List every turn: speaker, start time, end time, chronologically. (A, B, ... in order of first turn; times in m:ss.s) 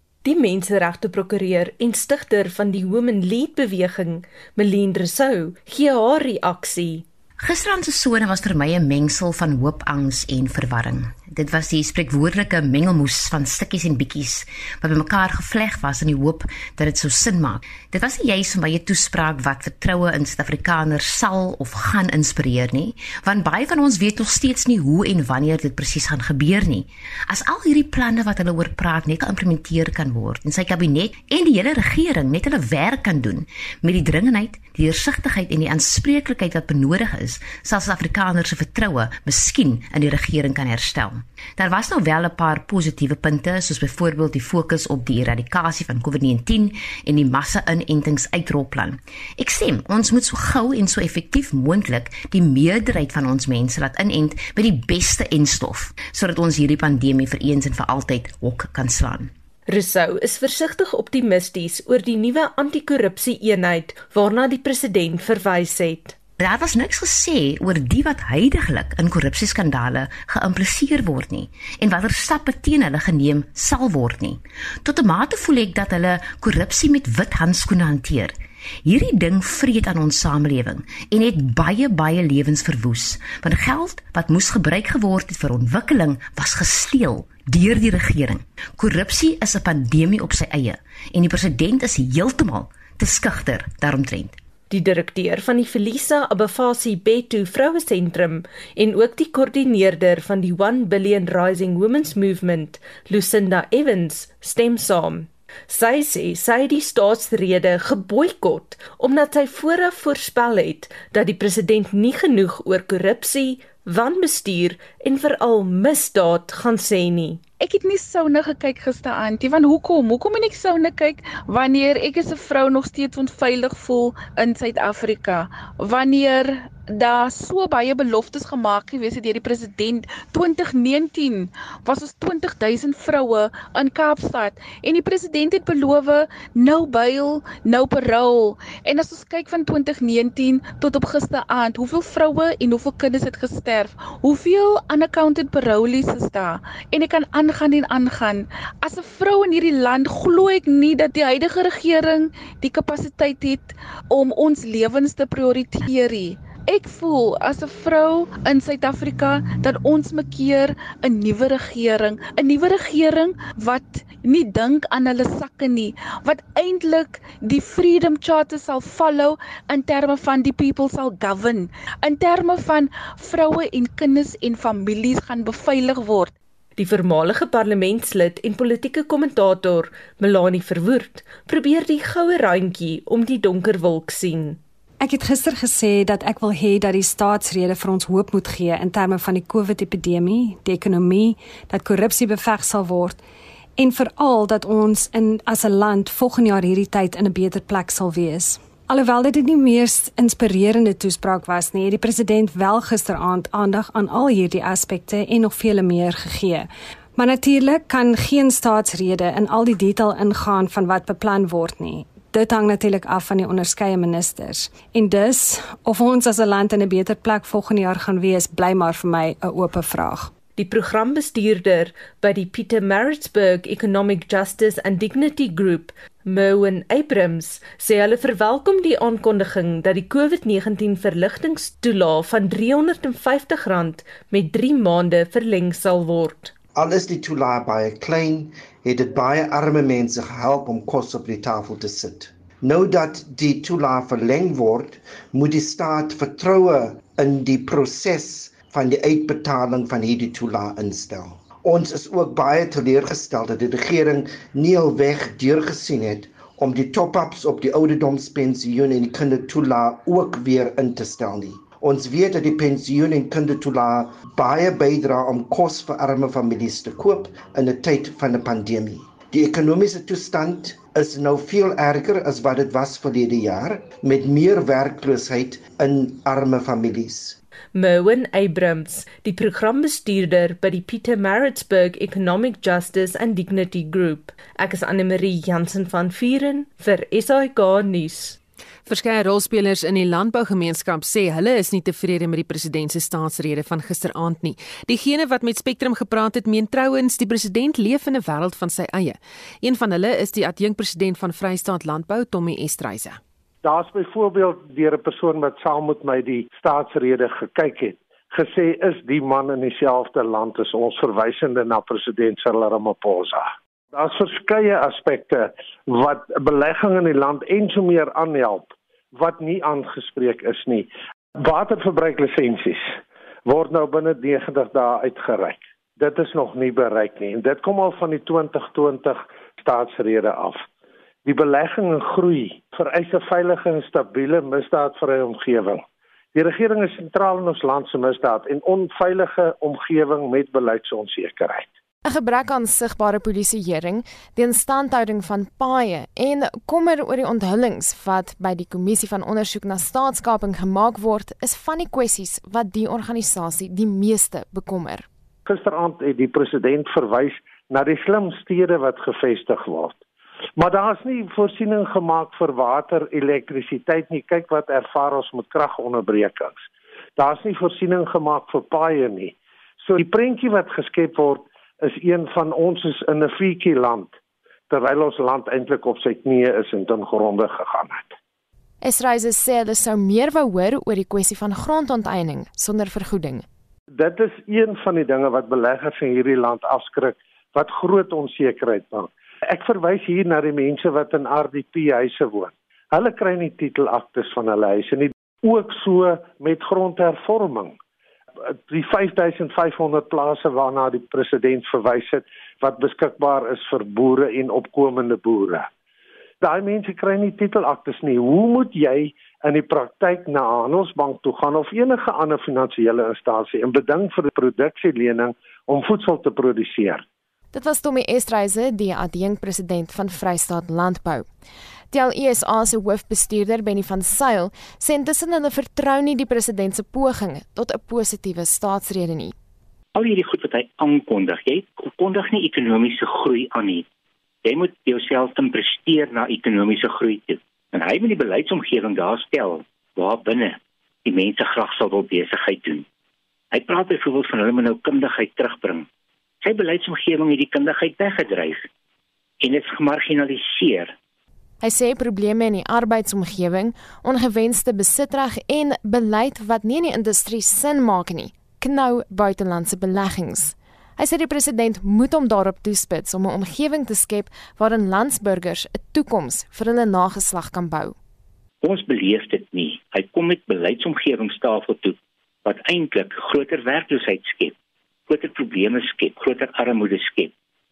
0:00.2-0:07.0 A
0:07.4-0:59.3 B
0:59.7-1:06.2 A
1:06.4-1:34.4 B
1:34.7-1:57.4 A
1:57.6-2:56.3 C
2:56.8-3:04.6 A
3:05.0-3:13.2 D
3:13.8-3:40.3 D
3:40.6-3:56.5 A
3:56.7-4:37.4 E
4:37.7-4:48.4 A
4:48.8-5:03.2 F
5:03.6-5:30.6 G
5:31.2-5:41.7 G
5:42.0-5:55.1 H
5:55.4-6:00.0 G
6:00.6-6:06.6 G
6:07.2-6:14.1 G
6:14.7-6:18.1 G
6:18.8-6:23.4 H
6:23.9-6:37.8 G
6:38.5-6:45.7 G
6:46.4-6:57.0 G
6:57.5-7:01.3 H
7:01.9-7:09.3 H
7:09.9-7:13.8 I
7:14.4-7:22.8 I
7:23.5-7:25.9 I
7:26.4-7:28.7 I
7:29.4-7:30.9 I
7:31.6-7:48.0 H
7:48.6-7:54.5 I
7:55.1-7:57.3 I